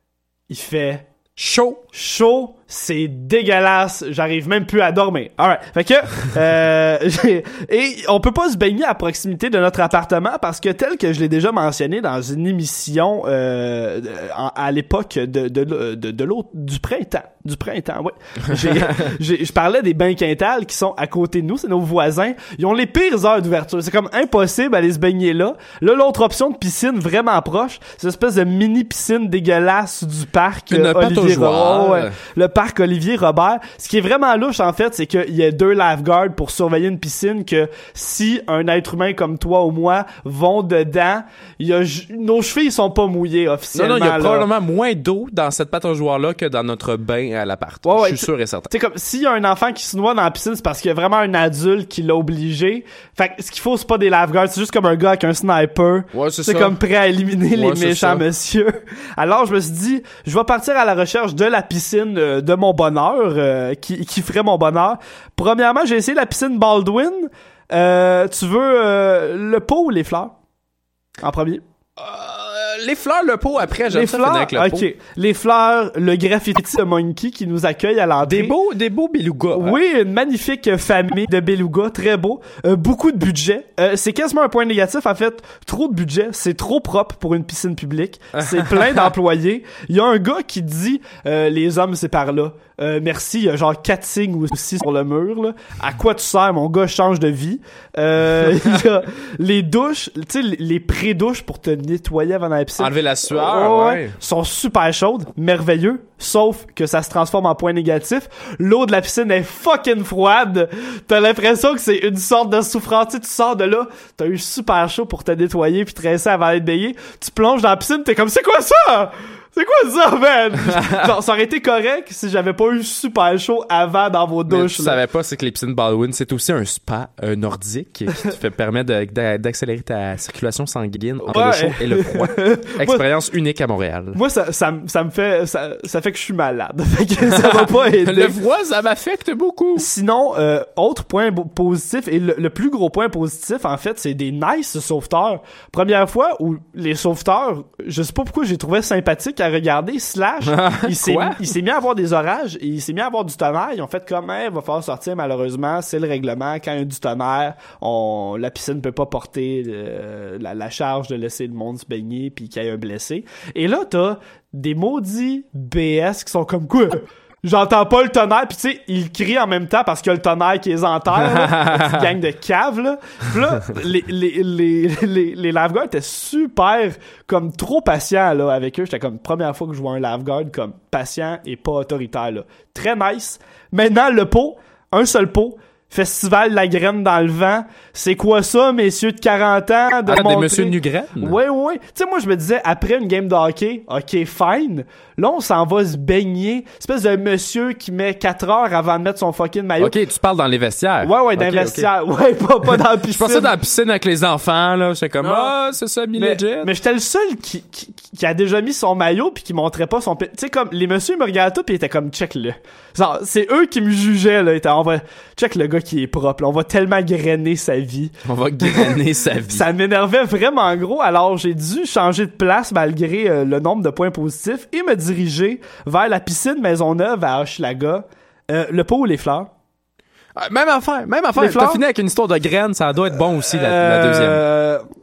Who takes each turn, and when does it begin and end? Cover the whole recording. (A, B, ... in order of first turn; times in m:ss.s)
0:00.5-0:01.0 A
0:01.4-0:01.8 B
0:01.9-0:44.5 A
0:18.6-0:19.0 B
0:30.7-0:32.2 B
0:43.7-0:48.7 B
0:47.8-1:10.3 A
0:56.1-0:56.8 B
0:57.5-0:58.2 B
1:11.2-1:11.6 A
1:12.0-1:14.9 B
1:13.9-1:18.5 A
1:18.2-1:19.8 B
1:19.5-2:05.0 A
1:28.4-1:29.1 B
1:42.8-1:44.2 B
2:00.7-2:01.1 B
2:04.5-2:14.2 B
2:11.2-2:13.0 A
2:14.1-2:18.4 A
2:17.3-2:19.9 B
2:19.8-3:20.0 A
2:30.5-2:31.4 B
2:51.2-2:52.1 B
3:10.0-3:11.4 B
3:19.8-3:21.9 B
3:21.0-3:23.5 A
3:23.1-3:26.7 B
3:25.2-3:25.5 A
3:26.2-3:38.1 A
3:38.2-3:39.6 B
3:38.6-3:38.9 A
3:39.5-3:49.5 A
3:50.4-3:54.4 B
3:51.4-3:51.8 A
3:53.4-3:54.8 A